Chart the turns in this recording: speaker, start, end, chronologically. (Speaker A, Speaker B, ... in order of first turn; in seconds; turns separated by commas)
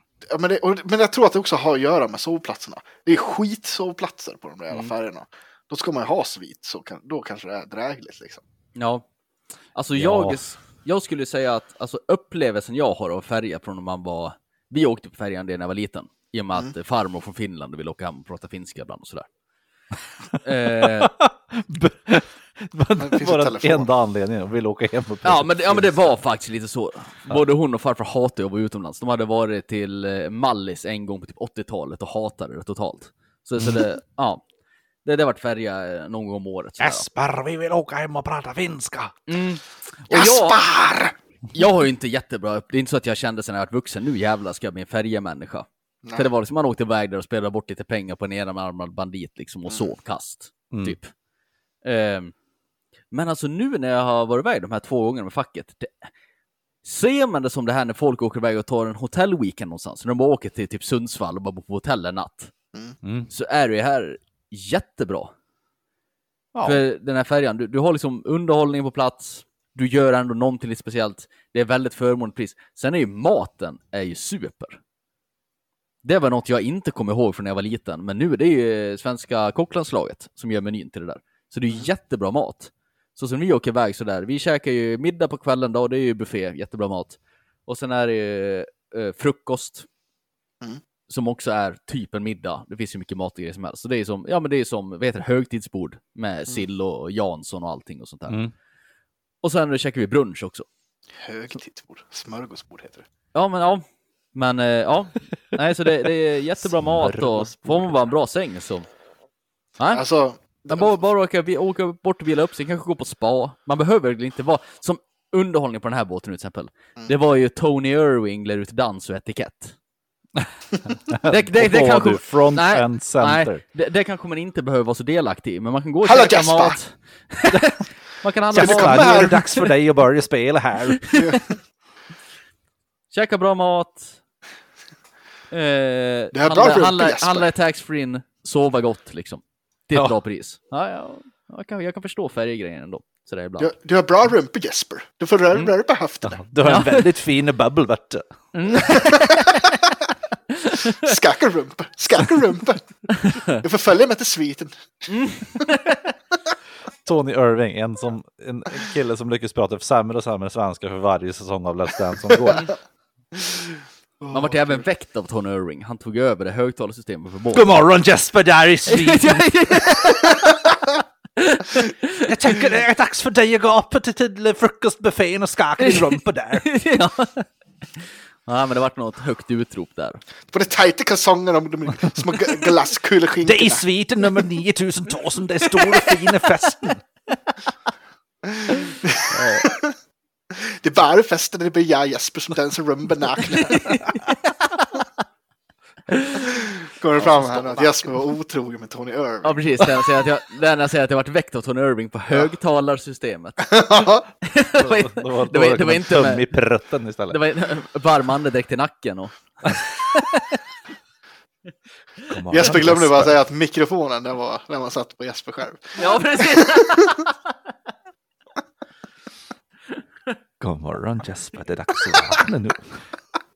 Speaker A: 0.2-8.4, Speaker B: 8.8-9.1, Speaker B: 9.7-19.3, Speaker C: 9.9-10.4, Speaker B: 20.4-21.1, Speaker C: 21.0-26.0, Speaker A: 23.0-23.9, Speaker B: 25.2-34.4, Speaker B: 35.0-37.0, Speaker C: 36.8-39.1, Speaker B: 39.3-40.6, Speaker A: 40.1-41.2, Speaker B: 41.5-51.1, Speaker A: 46.0-46.3, Speaker A: 49.7-49.9, Speaker C: 50.7-51.0, Speaker B: 51.9-52.3, Speaker B: 53.1-56.1, Speaker B: 56.8-62.5, Speaker C: 63.0-63.3, Speaker B: 63.3-65.3, Speaker C: 66.5-66.8, Speaker B: 66.6-74.8, Speaker B: 76.0-89.9, Speaker B: 91.1-98.4, Speaker B: 99.4-100.7, Speaker A: 101.2-103.1, Speaker B: 103.3-108.9, Speaker C: 106.7-107.9, Speaker B: 109.8-110.0, Speaker A: 109.9-111.0, Speaker B: 110.6-119.8, Speaker C: 120.4-123.6, Speaker B: 121.3-129.6, Speaker A: 126.0-126.8, Speaker C: 128.5-131.2, Speaker A: 128.6-129.4, Speaker A: 131.2-131.5, Speaker B: 133.1-134.2, Speaker B: 135.5-143.7, Speaker A: 136.3-137.5, Speaker A: 143.6-146.4, Speaker C: 146.2-148.2, Speaker B: 146.7-147.1, Speaker B: 148.6-149.7, Speaker B: 150.6-151.1, Speaker A: 151.0-155.1, Speaker B: 153.2-153.6, Speaker B: 155.1-156.0, Speaker C: 157.0-162.7, Speaker A: 162.4-162.7, Speaker A: 163.3-164.8, Speaker B: 164.3-167.7, Speaker C: 167.5-169.9, Speaker B: 168.9-170.6, Speaker B: 171.4-172.3, Speaker C: 172.2-176.7, Speaker B: 175.8-177.4, Speaker B: 178.5-180.2, Speaker A: 180.5-183.9, Speaker C: 183.4-187.1, Speaker A: 188.4-190.0, Speaker B: 189.3-189.7, Speaker A: 190.5-193.9, Speaker B: 193.6-194.2, Speaker B: 196.1-196.6, Speaker A: 196.5-200.0, Speaker B: 197.2-197.9, Speaker B: 199.4-203.8, Speaker A: 203.6-204.3, Speaker B: 204.4-206.4, Speaker C: 204.8-207.4, Speaker B: 207.3-209.8, Speaker C: 212.3-213.3, Speaker A: 212.5-217.3, Speaker B: 216.0-217.3, Speaker C: 220.6-223.1